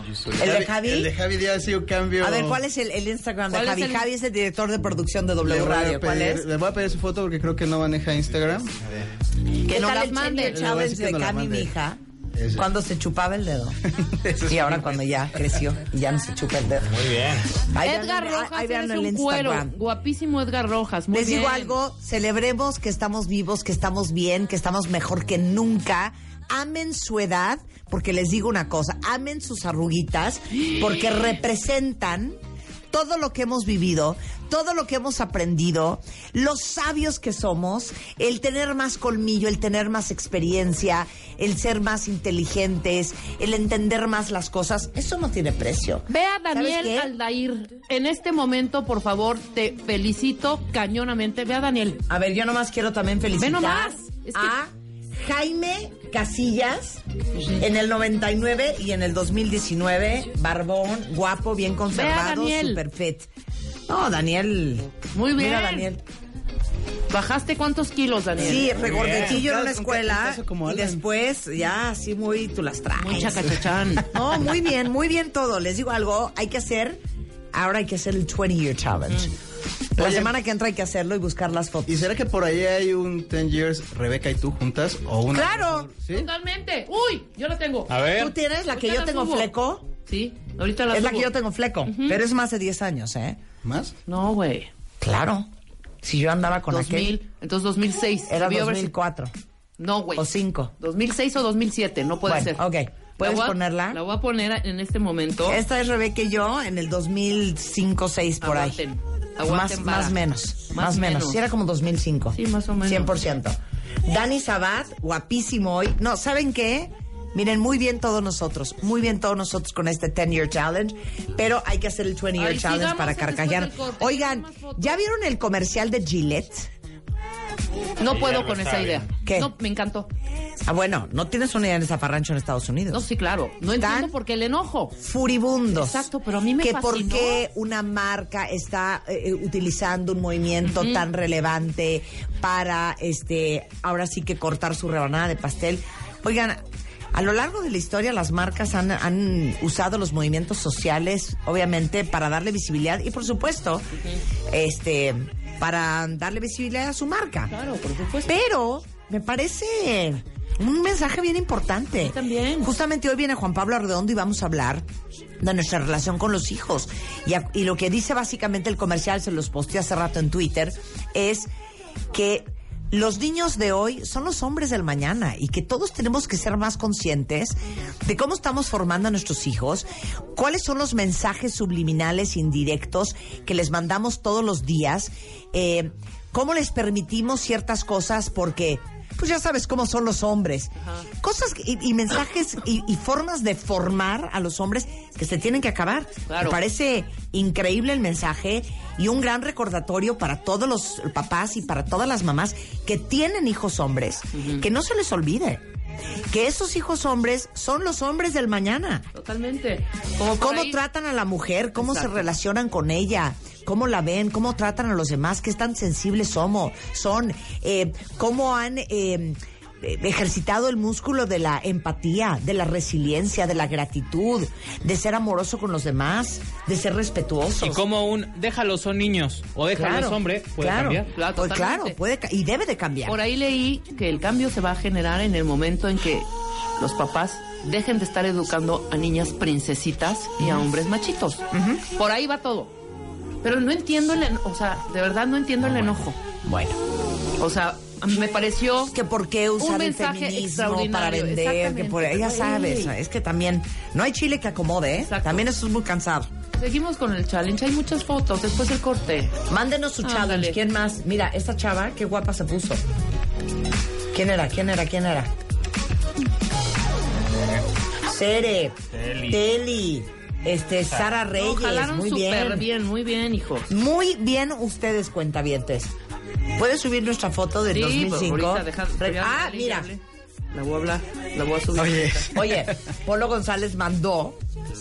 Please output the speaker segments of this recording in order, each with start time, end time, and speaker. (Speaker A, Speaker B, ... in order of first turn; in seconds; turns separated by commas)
Speaker A: 0.2-2.6, Speaker B: 0.4-1.1, Speaker B: 2.2-6.5, Speaker C: 3.5-4.1, Speaker A: 5.4-9.1, Speaker B: 9.6-12.0, Speaker C: 9.7-10.8, Speaker A: 10.5-11.7, Speaker A: 12.3-12.7, Speaker B: 12.5-13.8, Speaker A: 14.0-15.1, Speaker B: 14.4-19.8, Speaker D: 16.9-17.5, Speaker C: 17.8-21.8, Speaker B: 21.1-32.4, Speaker B: 32.9-47.1, Speaker C: 46.1-52.0, Speaker B: 52.1-57.0, Speaker C: 53.4-54.6, Speaker B: 57.5-63.3, Speaker C: 61.9-62.8, Speaker B: 63.9-66.0, Speaker C: 65.1-65.9, Speaker C: 67.1-68.8, Speaker B: 68.4-73.5, Speaker A: 68.5-71.0, Speaker D: 68.8-69.4, Speaker C: 73.0-74.1, Speaker B: 74.1-77.0, Speaker B: 77.5-79.3, Speaker B: 80.0-82.1, Speaker A: 80.0-80.3, Speaker A: 81.9-86.3, Speaker B: 85.3-85.9, Speaker C: 86.1-87.9, Speaker D: 87.9-88.3, Speaker B: 88.1-89.9, Speaker C: 88.7-89.5, Speaker C: 90.1-91.3, Speaker B: 90.9-93.4, Speaker C: 91.9-92.2, Speaker A: 93.6-93.9, Speaker C: 94.1-94.7, Speaker B: 95.0-95.5, Speaker B: 96.0-97.2, Speaker C: 96.7-98.9, Speaker B: 98.3-99.3, Speaker C: 99.8-102.7, Speaker B: 100.1-100.7, Speaker B: 102.3-104.0, Speaker C: 103.2-105.6, Speaker B: 105.5-108.8, Speaker C: 108.4-111.4, Speaker B: 109.4-126.7, Speaker C: 112.3-113.1, Speaker C: 122.4-125.0, Speaker C: 128.0-130.1, Speaker D: 128.1-129.1, Speaker B: 129.2-129.5, Speaker B: 130.6-133.1, Speaker C: 132.9-135.0, Speaker B: 133.8-134.2, Speaker B: 134.9-136.1, Speaker C: 135.7-137.4, Speaker B: 136.6-153.9, Speaker C: 140.6-141.1, Speaker C: 153.9-154.2, Speaker B: 154.5-157.5, Speaker C: 157.5-158.4, Speaker B: 158.3-164.9, Speaker C: 162.0-162.7, Speaker B: 165.4-171.5, Speaker B: 172.1-205.6, Speaker C: 190.8-191.1, Speaker C: 196.3-196.6, Speaker C: 204.3-204.7, Speaker B: 206.3-209.1, Speaker C: 209.1-210.8, Speaker B: 210.3-227.8, Speaker C: 211.8-212.3, Speaker D: 227.6-231.1, Speaker B: 229.7-233.2, Speaker C: 231.1-232.0, Speaker C: 233.1-242.7, Speaker B: 241.5-241.8, Speaker C: 243.4-246.2, Speaker B: 246.4-246.8, Speaker C: 247.4-248.9, Speaker B: 248.9-256.3, Speaker C: 249.6-252.9, Speaker C: 255.1-255.5, Speaker C: 256.6-259.4, Speaker B: 259.5-262.8, Speaker C: 260.0-260.6, Speaker B: 264.1-265.3, Speaker B: 268.0-272.7, Speaker D: 268.9-269.4, Speaker C: 271.3-273.7, Speaker B: 273.7-275.9, Speaker B: 276.6-279.9, Speaker C: 277.7-282.3, Speaker A: 281.7-282.7, Speaker B: 282.3-284.4